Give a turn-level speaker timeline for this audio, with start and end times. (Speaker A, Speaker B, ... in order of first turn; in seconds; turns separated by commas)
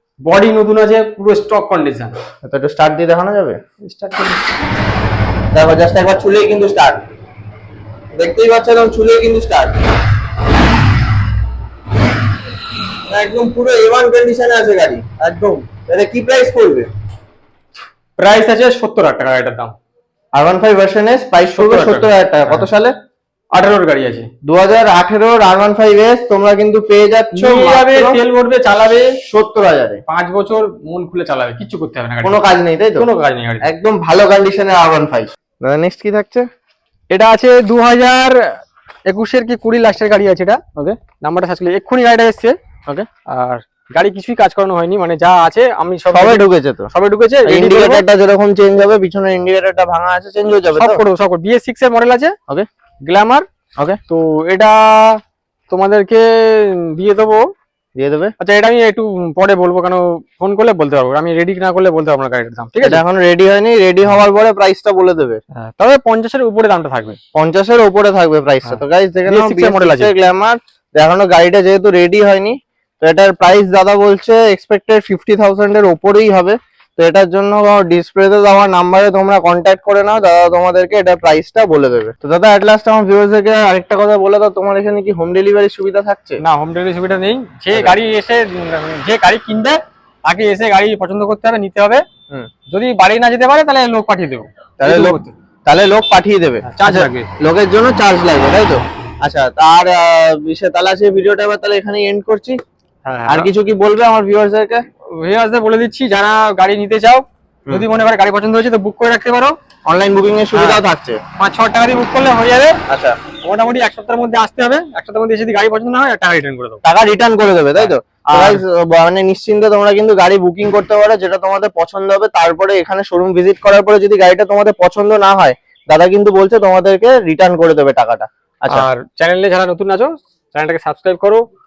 Speaker A: 0.2-2.1, Speaker B: 2.4-3.6, Speaker A: 3.8-4.5, Speaker B: 5.5-7.0, Speaker B: 8.1-9.8, Speaker B: 13.1-16.9, Speaker A: 15.2-15.7, Speaker A: 18.2-19.8, Speaker B: 20.4-22.9, Speaker A: 21.5-22.7, Speaker A: 23.5-24.3, Speaker B: 24.4-28.2, Speaker A: 27.3-29.1, Speaker B: 29.2-30.0, Speaker A: 30.1-33.7, Speaker B: 32.2-33.1, Speaker B: 33.6-36.5, Speaker A: 37.1-42.6, Speaker A: 43.3-48.0, Speaker B: 46.1-46.9, Speaker B: 47.4-51.0, Speaker A: 50.7-52.3, Speaker A: 53.1-53.5, Speaker A: 54.1-57.5, Speaker B: 58.0-58.3, Speaker A: 58.4-63.0, Speaker B: 62.8-65.4, Speaker A: 65.5-67.2, Speaker B: 67.3-86.4, Speaker A: 68.6-70.1, Speaker A: 86.4-92.0, Speaker B: 87.7-88.0, Speaker A: 92.7-95.3, Speaker B: 94.8-102.6, Speaker A: 96.7-97.3, Speaker A: 103.0-103.5, Speaker B: 103.2-104.8, Speaker A: 105.1-109.5, Speaker B: 109.8-111.2, Speaker A: 110.5-110.8, Speaker A: 111.4-112.8, Speaker B: 112.9-113.2, Speaker A: 113.4-116.8, Speaker B: 116.8-128.9, Speaker A: 117.8-118.6, Speaker A: 128.7-131.4